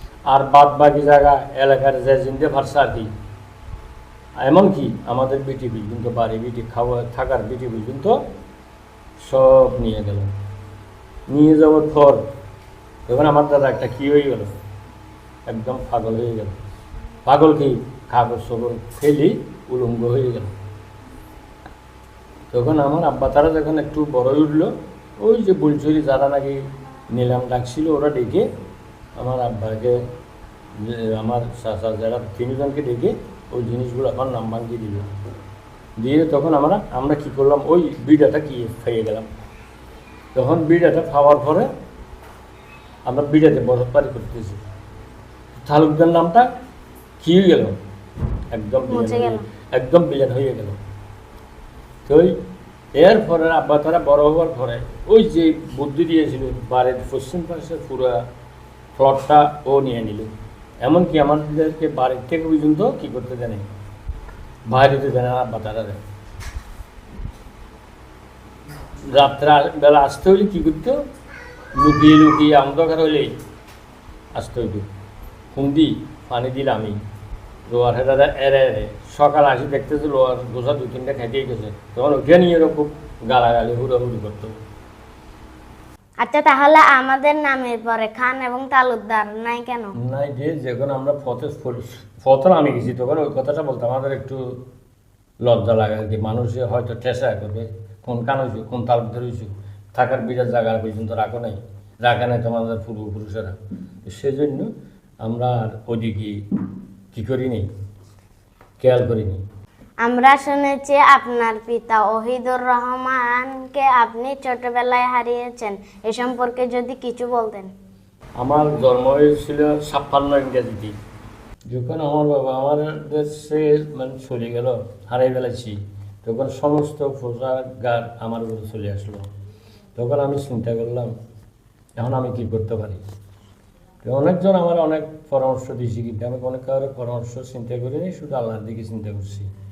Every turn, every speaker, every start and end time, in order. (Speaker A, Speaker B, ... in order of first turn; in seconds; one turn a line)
Speaker A: 0.2-3.1
Speaker A: 4.4-8.2
Speaker A: 9.2-10.3
Speaker A: 11.3-12.2
Speaker A: 13.1-14.5
Speaker A: 15.5-16.6
Speaker A: 17.3-20.5
Speaker A: 22.5-28.5
Speaker A: 29.2-30.0
Speaker A: 30.8-35.1
Speaker A: 36.0-39.3
Speaker A: 40.4-41.7
Speaker A: 43.0-44.6
Speaker A: 45.6-46.5
Speaker A: 47.2-47.8
Speaker A: 48.5-50.8
Speaker B: 48.9-49.5
Speaker A: 52.1-52.3
Speaker A: 53.0-58.2
Speaker A: 59.0-60.3
Speaker A: 60.8-63.7
Speaker A: 64.7-66.0
Speaker A: 69.1-71.0
Speaker A: 71.8-73.3
Speaker A: 74.3-74.9
Speaker A: 75.5-77.0
Speaker A: 77.7-84.5
Speaker B: 86.2-90.0
Speaker A: 90.0-94.6
Speaker A: 95.4-104.7
Speaker A: 105.2-106.4
Speaker A: 107.1-107.7
Speaker A: 108.8-109.4
Speaker B: 110.0-117.7
Speaker A: 118.4-120.9
Speaker A: 121.7-129.2
Speaker A: 130.0-131.1
Speaker A: 132.0-133.0
Speaker A: 134.0-139.5